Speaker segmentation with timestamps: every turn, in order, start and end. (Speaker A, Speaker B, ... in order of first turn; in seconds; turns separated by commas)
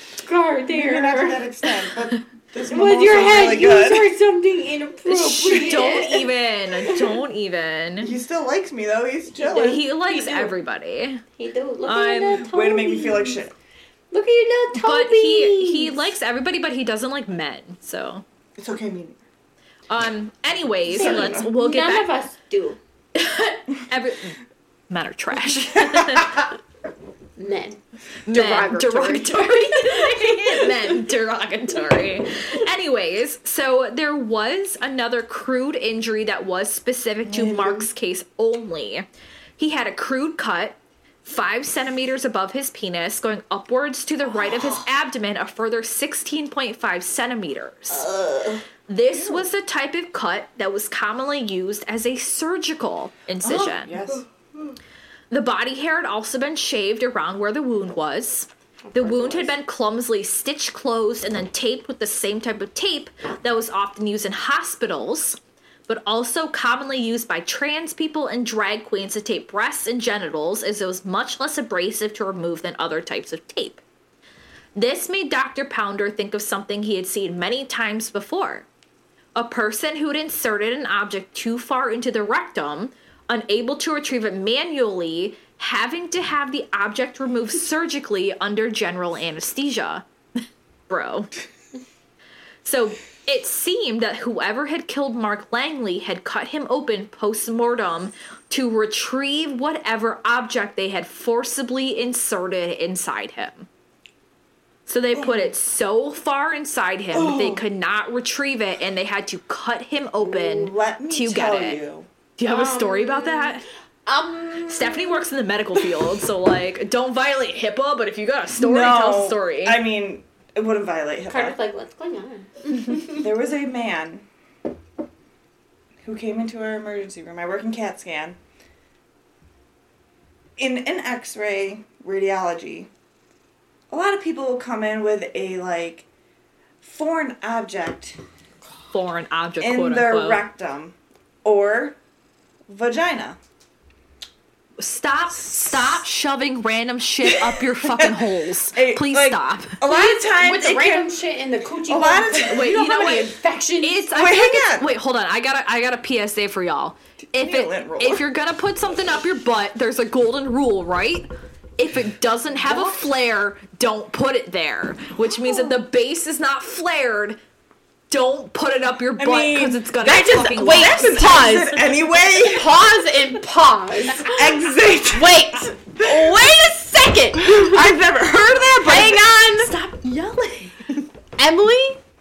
Speaker A: 0.2-1.7, Speaker B: 0.7-4.1, Speaker A: 2.6-6.3, Speaker B: 5.1-5.9, Speaker C: 5.5-8.1, Speaker A: 6.9-7.2, Speaker B: 8.0-10.0, Speaker C: 9.4-11.2, Speaker A: 10.1-10.5, Speaker A: 11.4-13.4, Speaker C: 11.8-12.4, Speaker B: 12.4-13.5, Speaker A: 14.1-16.1, Speaker C: 14.8-18.2, Speaker B: 18.6-19.1, Speaker C: 19.9-22.1, Speaker B: 20.9-21.5, Speaker A: 20.9-22.8, Speaker C: 23.1-24.4, Speaker C: 24.9-26.4, Speaker B: 25.7-26.3, Speaker A: 27.4-31.1, Speaker C: 28.3-39.0, Speaker B: 37.3-37.9, Speaker C: 39.6-48.1, Speaker B: 47.9-49.4, Speaker C: 48.9-54.2, Speaker B: 53.4-54.8, Speaker C: 55.3-65.4, Speaker A: 58.9-59.5, Speaker C: 65.9-73.8, Speaker C: 74.7-78.7, Speaker C: 79.3-90.0, Speaker C: 90.9-91.3, Speaker C: 92.6-103.7, Speaker C: 104.9-111.8, Speaker B: 105.1-105.5, Speaker B: 107.1-107.6, Speaker B: 110.2-112.1, Speaker C: 112.4-113.6, Speaker A: 112.4-115.1, Speaker C: 114.6-119.8, Speaker B: 118.5-121.6, Speaker A: 121.3-123.2, Speaker B: 123.2-124.2, Speaker B: 126.0-128.4, Speaker B: 130.6-132.9, Speaker B: 133.9-136.1, Speaker B: 136.8-138.2, Speaker C: 138.9-140.4, Speaker B: 139.6-141.9, Speaker B: 142.7-143.4, Speaker C: 144.8-149.8, Speaker B: 147.2-151.1, Speaker A: 149.8-154.1, Speaker B: 151.9-152.7, Speaker C: 152.4-167.4, Speaker B: 154.1-154.9, Speaker B: 157.2-158.2, Speaker B: 162.6-162.9, Speaker C: 168.1-171.6, Speaker B: 169.2-172.8, Speaker A: 170.0-179.7, Speaker B: 174.2-176.6, Speaker B: 177.4-179.3, Speaker C: 179.5-181.1, Speaker A: 181.4-182.0